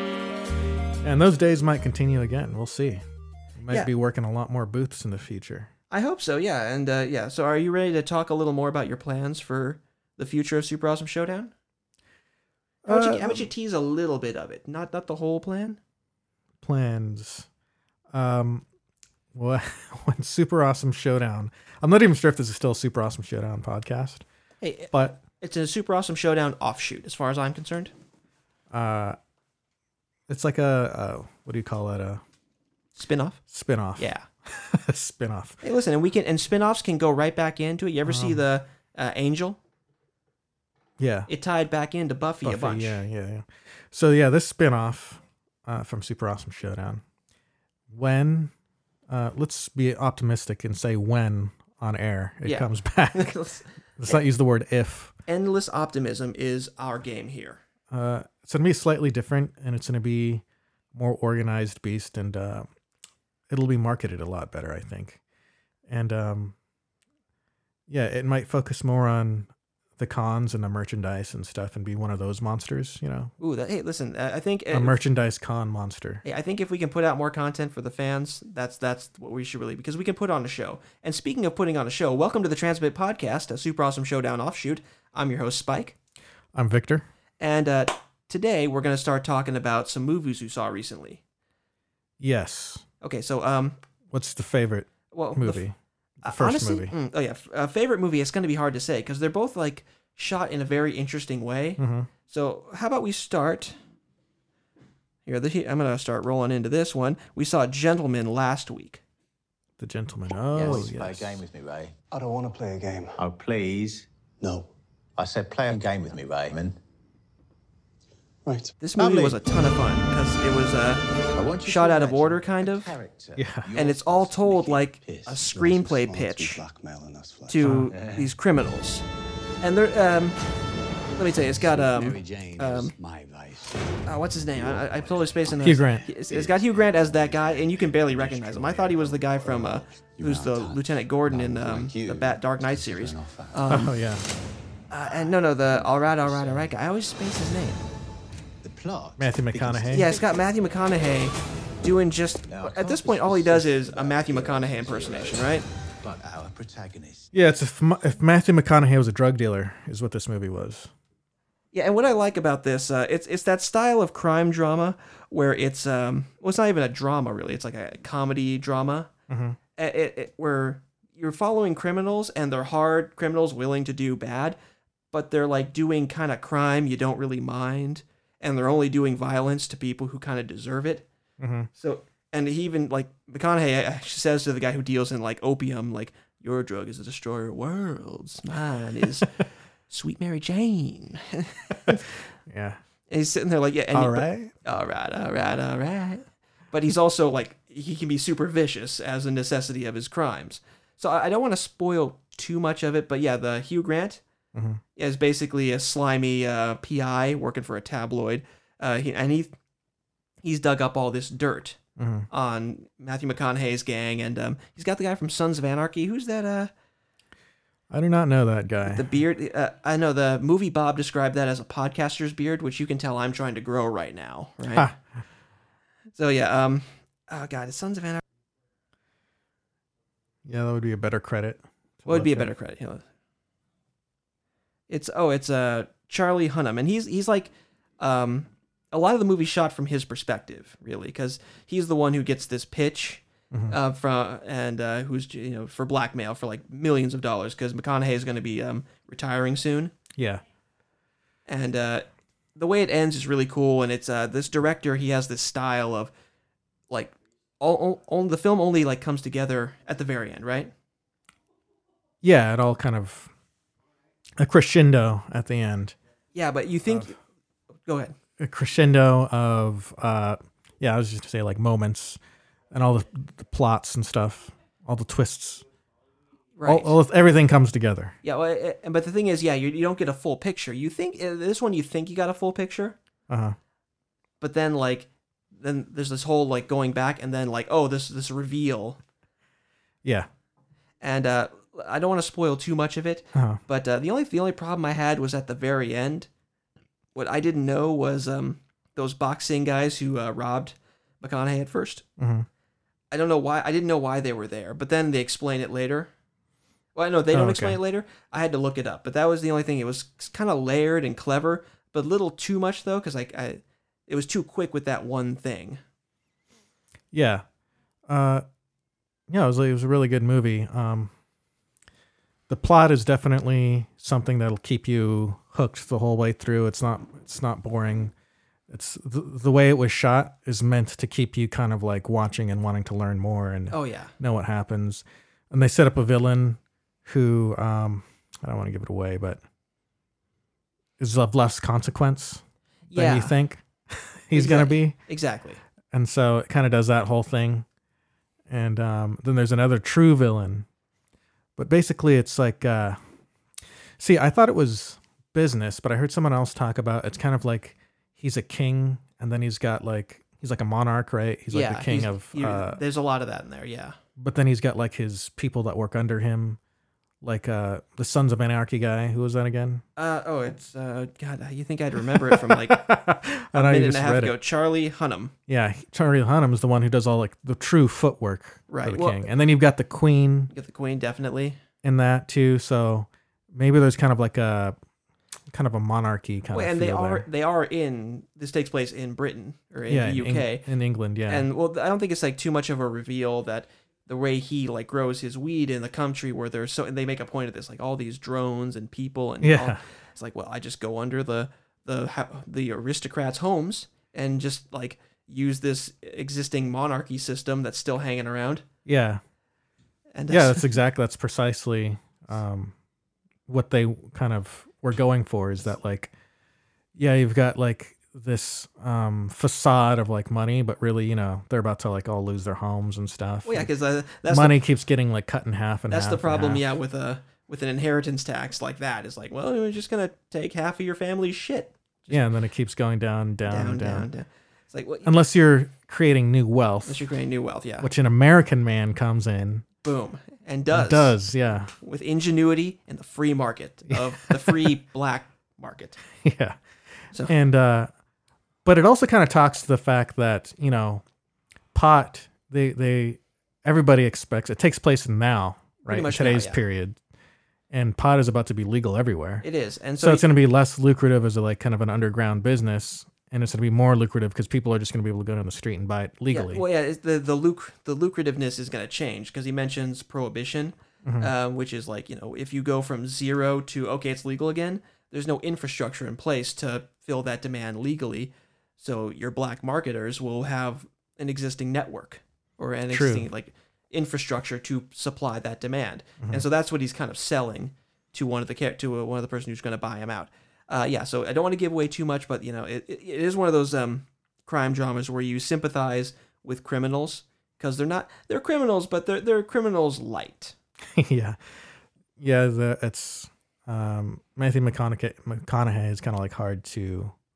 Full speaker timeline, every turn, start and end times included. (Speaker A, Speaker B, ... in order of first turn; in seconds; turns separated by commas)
Speaker A: 1.0-3.0, Speaker A: 3.6-5.7, Speaker B: 5.9-11.5, Speaker A: 12.8-13.5, Speaker B: 12.9-15.8, Speaker A: 16.6-17.5, Speaker A: 18.1-18.6, Speaker A: 19.3-24.2, Speaker B: 24.6-27.9, Speaker A: 24.9-25.2, Speaker A: 28.7-29.2, Speaker A: 30.3-32.2, Speaker B: 32.9-33.4, Speaker A: 33.5-35.6, Speaker B: 34.0-34.2, Speaker B: 35.6-39.6, Speaker A: 38.0-38.4, Speaker A: 41.0-41.3, Speaker B: 41.3-43.0, Speaker A: 42.4-47.0, Speaker A: 47.9-48.5, Speaker A: 49.1-53.3, Speaker B: 52.4-54.2, Speaker A: 54.0-55.1, Speaker B: 55.3-57.6, Speaker A: 57.9-60.4, Speaker A: 60.9-62.7, Speaker A: 63.5-65.2, Speaker A: 65.9-66.5, Speaker A: 67.9-73.3, Speaker B: 73.4-75.0, Speaker A: 74.7-76.2, Speaker B: 76.2-85.9, Speaker A: 86.5-87.1, Speaker B: 87.4-91.2, Speaker A: 92.2-92.8, Speaker B: 93.0-93.8, Speaker A: 94.1-96.9, Speaker B: 95.1-95.7, Speaker B: 96.2-103.8, Speaker A: 101.8-102.1, Speaker B: 105.2-109.0, Speaker A: 109.8-111.4, Speaker B: 110.5-110.8, Speaker C: 110.5-111.9, Speaker D: 112.1-113.2, Speaker C: 113.2-114.1, Speaker D: 114.4-114.7, Speaker C: 115.2-116.8, Speaker D: 118.4-118.8, Speaker B: 118.8-121.0, Speaker C: 119.0-119.4, Speaker C: 121.3-126.1, Speaker B: 121.6-122.9, Speaker A: 123.3-123.7, Speaker B: 123.8-126.6, Speaker D: 126.1-127.8, Speaker B: 127.5-129.1, Speaker A: 127.6-127.9, Speaker C: 127.8-128.3, Speaker B: 129.6-130.4, Speaker B: 131.1-132.9, Speaker C: 131.3-143.8, Speaker B: 134.1-143.9, Speaker A: 135.6-136.1, Speaker A: 143.7-144.2, Speaker B: 144.9-147.8, Speaker C: 145.0-146.7, Speaker C: 148.6-150.6, Speaker A: 149.2-150.1, Speaker B: 149.9-155.7, Speaker C: 152.5-155.5, Speaker C: 156.0-157.3, Speaker A: 157.3-160.9, Speaker B: 161.7-169.1, Speaker A: 169.3-169.6, Speaker B: 169.8-174.6, Speaker B: 175.1-181.1, Speaker A: 181.4-181.7, Speaker B: 181.8-189.3, Speaker B: 189.9-192.1, Speaker A: 191.9-192.8, Speaker B: 193.1-204.2, Speaker A: 193.9-194.5, Speaker A: 204.5-204.8, Speaker B: 204.9-209.5, Speaker B: 210.4-211.8, Speaker A: 212.0-212.3, Speaker B: 212.3-216.7, Speaker A: 217.9-219.1, Speaker B: 218.8-224.9, Speaker A: 224.7-225.0, Speaker B: 226.1-228.2, Speaker A: 230.4-232.5, Speaker B: 232.1-233.0, Speaker B: 234.9-249.9, Speaker A: 250.2-250.4, Speaker B: 251.5-256.1, Speaker B: 256.9-260.7, Speaker A: 262.2-263.3, Speaker A: 264.4-265.9, Speaker B: 266.3-267.1, Speaker B: 267.9-268.1, Speaker A: 268.4-272.2, Speaker A: 272.7-275.6, Speaker B: 276.6-276.9, Speaker A: 276.6-278.1, Speaker B: 278.2-283.0, Speaker A: 283.3-283.6, Speaker B: 284.4-289.0, Speaker B: 291.0-296.3, Speaker A: 293.3-293.6, Speaker B: 297.1-302.0, Speaker A: 302.2-302.5, Speaker B: 303.1-306.1, Speaker B: 306.9-315.8, Speaker A: 307.3-307.8, Speaker A: 317.1-317.4, Speaker A: 318.1-318.4, Speaker A: 319.3-321.1, Speaker A: 322.5-328.1, Speaker A: 328.7-339.4, Speaker B: 333.7-334.1, Speaker A: 341.0-344.9, Speaker B: 342.9-343.3, Speaker B: 344.3-345.6, Speaker A: 345.9-347.6, Speaker A: 348.5-350.6, Speaker A: 351.6-353.0, Speaker A: 354.0-362.8, Speaker B: 361.5-364.0, Speaker A: 364.2-366.6, Speaker A: 367.2-369.8, Speaker B: 370.0-372.9, Speaker A: 372.3-374.4, Speaker B: 373.5-375.3, Speaker A: 375.5-380.5, Speaker B: 378.7-379.2, Speaker B: 380.5-381.6, Speaker A: 381.8-384.8, Speaker A: 385.5-387.2, Speaker B: 386.5-390.6, Speaker A: 389.9-391.5, Speaker B: 391.3-408.6, Speaker A: 399.4-399.8, Speaker A: 408.9-409.2, Speaker B: 410.1-410.8, Speaker A: 410.3-412.7, Speaker A: 413.5-416.1, Speaker A: 416.9-423.7, Speaker B: 423.4-424.6, Speaker A: 424.2-426.6, Speaker B: 425.9-432.3, Speaker A: 432.1-434.1, Speaker B: 433.5-435.1, Speaker A: 435.0-437.0, Speaker B: 436.9-437.9, Speaker A: 437.8-439.6, Speaker B: 439.8-441.1, Speaker A: 440.7-441.7, Speaker B: 441.8-446.0, Speaker A: 443.9-444.7, Speaker A: 446.2-446.6, Speaker A: 447.2-447.9, Speaker A: 448.6-451.0, Speaker A: 451.7-457.0, Speaker B: 455.9-456.6, Speaker A: 457.7-459.4, Speaker B: 459.4-460.3, Speaker A: 460.0-466.6, Speaker B: 466.3-500.5, Speaker A: 471.0-471.3, Speaker A: 482.9-483.3, Speaker A: 500.9-501.4, Speaker A: 502.2-507.1